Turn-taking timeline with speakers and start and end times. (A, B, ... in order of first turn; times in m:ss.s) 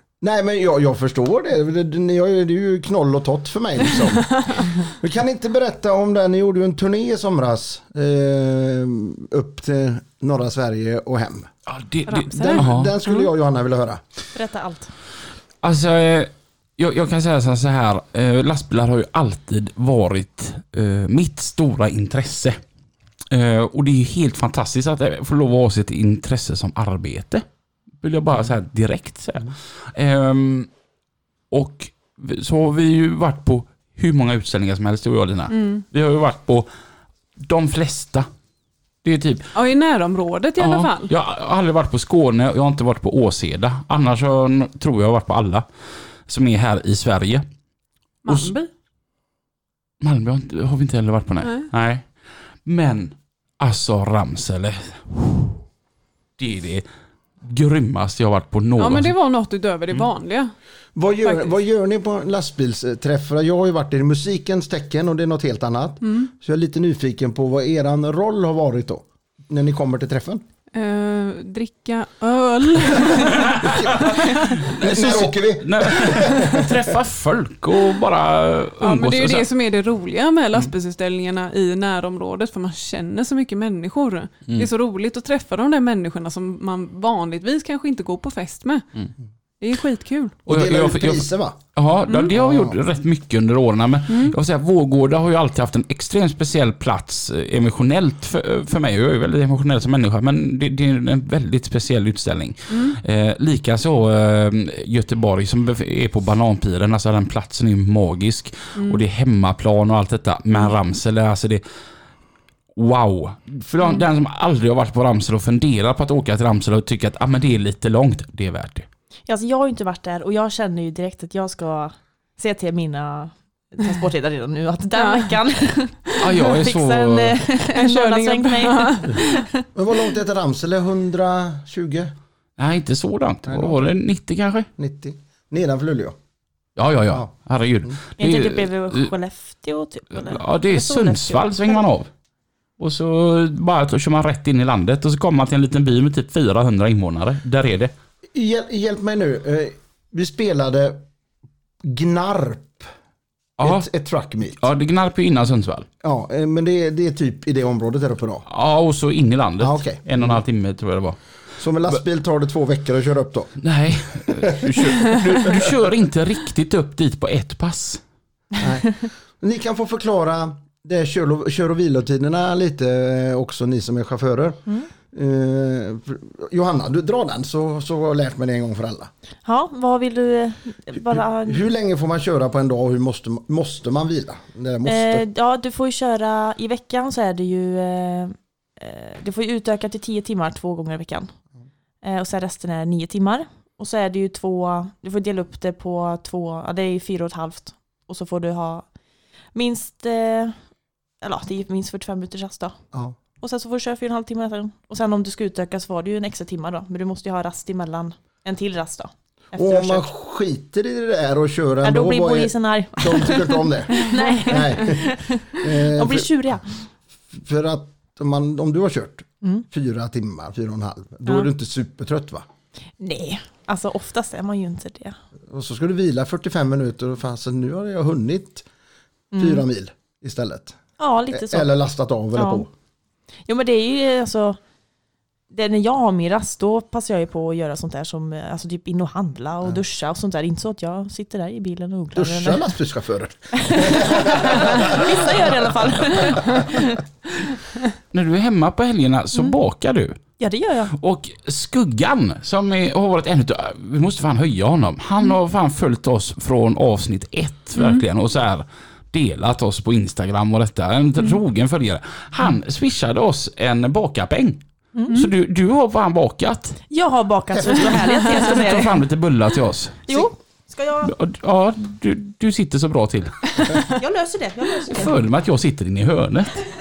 0:00.2-0:11.5 A
0:04.3-0:04.7 B
0:11.7-0:12.9 C
0:12.1-0:13.3 B
0:12.3-0:14.0 A
0:14.3-0:14.9 D
0:15.6-0:22.6 C
0:23.3-0:27.4 C
0:28.0-0:30.7 C
0:31.5-0:36.7 C
0:35.5-0:35.8 B
0:37.4-0:38.3 C
0:39.0-0:39.5 C
0:39.5-0:41.1 B
0:40.6-0:45.6 C
0:46.3-0:47.4 C
0:48.2-0:48.7 B
0:48.3-0:48.5 C
0:50.0-0:52.1 C
0:51.4-0:51.7 B
0:52.6-0:55.5 C
0:56.4-0:56.9 C
0:57.4-0:59.1 C
0:58.8-1:00.5 B
1:01.0-1:10.4 A
1:01.2-1:01.5 B
1:06.0-1:06.3 B
1:10.7-1:14.6 B
1:13.4-1:19.5 C
1:13.6-1:16.9 A
1:18.8-1:28.9 B
1:29.6-1:30.4 B
1:30.5-1:31.6 A
1:30.5-1:51.6 C
1:32.3-1:32.8 A
1:34.1-1:34.4 B
1:42.7-1:43.0 B
1:48.8-1:49.0 B
1:52.8-1:58.9 C
1:59.3-2:09.7 D
2:05.0-2:05.3 B
2:06.2-2:07.4 C
2:07.6-2:09.3 B
2:09.8-2:12.1 A
2:12.6-2:14.7 C
2:13.5-2:13.8 A
2:14.8-2:16.2 A
2:16.8-2:19.1 C
2:18.2-2:21.8 D
2:20.1-2:22.1 C
2:22.8-2:27.9 C
2:28.3-2:31.0 A
2:31.8-2:32.9 A
2:33.6-2:33.9 C
2:33.6-2:34.6 A
2:34.6-2:35.9 C
2:36.0-2:38.5 A
2:38.5-2:41.2 C
2:39.6-2:40.4 A
2:41.6-2:43.6 A
2:43.6-2:48.0 C
2:44.3-2:44.9 A
2:48.6-2:59.1 A
2:59.4-3:01.6 D
3:01.0-3:05.2 A
3:04.9-3:11.3 D
3:12.0-3:18.9 D
3:19.5-3:20.6 D
3:21.2-3:22.8 D
3:23.4-3:30.1 D
3:29.5-3:36.3 A
3:31.8-3:36.6 D
3:37.3-3:42.5 A
3:43.0-3:45.2 D
3:45.5-3:48.7 A
3:49.3-3:49.6 D
3:49.4-3:50.8 A
3:51.0-3:51.7 D
3:51.3-3:52.7 A
3:52.4-3:52.7 D
3:53.5-3:54.6 D
3:55.5-4:02.6 D
4:02.2-4:06.4 A
4:03.6-4:07.5 D
4:08.1-4:10.2 C
4:10.4-4:10.9 D
4:10.9-4:26.8 C
4:17.8-4:18.0 B
4:26.9-4:29.0 D
4:27.7-4:30.1 C
4:30.1-4:31.1 D
4:31.0-4:33.8 C
4:33.7-4:35.2 D
4:34.9-4:36.6 C